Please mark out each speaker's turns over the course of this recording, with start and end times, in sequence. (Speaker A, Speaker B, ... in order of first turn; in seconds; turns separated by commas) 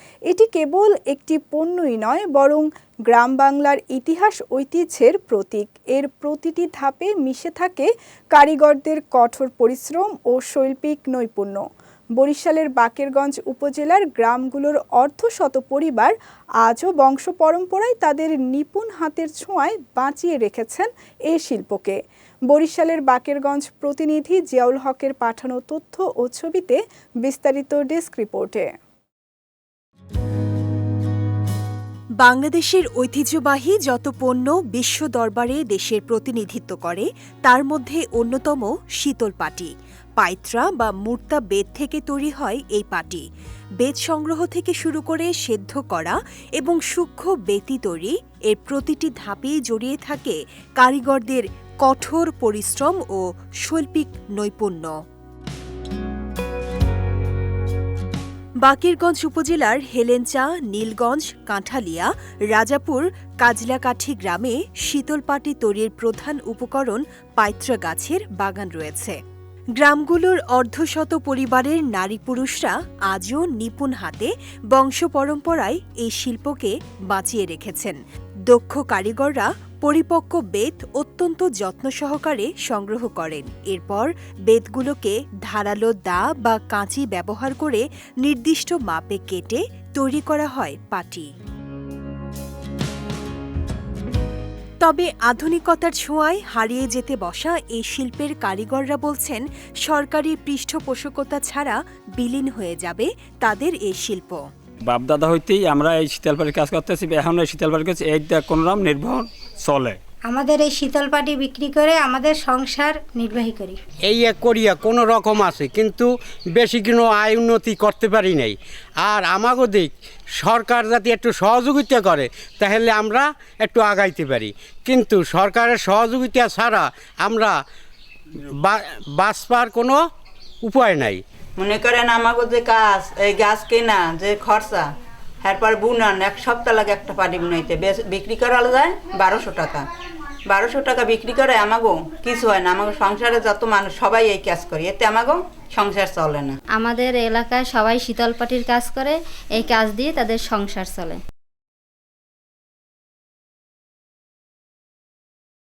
Speaker A: 0.3-11.6, Speaker A: 12.2-16.1, Speaker A: 16.6-21.9, Speaker A: 22.5-28.6, Speaker B: 32.2-43.2, Speaker B: 43.8-54.9, Speaker B: 58.6-69.2, Speaker B: 69.8-91.3, Speaker B: 94.8-104.4, Speaker C: 104.8-110.0, Speaker D: 110.2-113.8, Speaker E: 114.0-127.5, Speaker E: 128.4-130.0, Speaker E: 130.6-131.2, Speaker F: 131.6-134.9, Speaker F: 135.4-139.9, Speaker F: 140.4-146.6, Speaker G: 146.8-151.2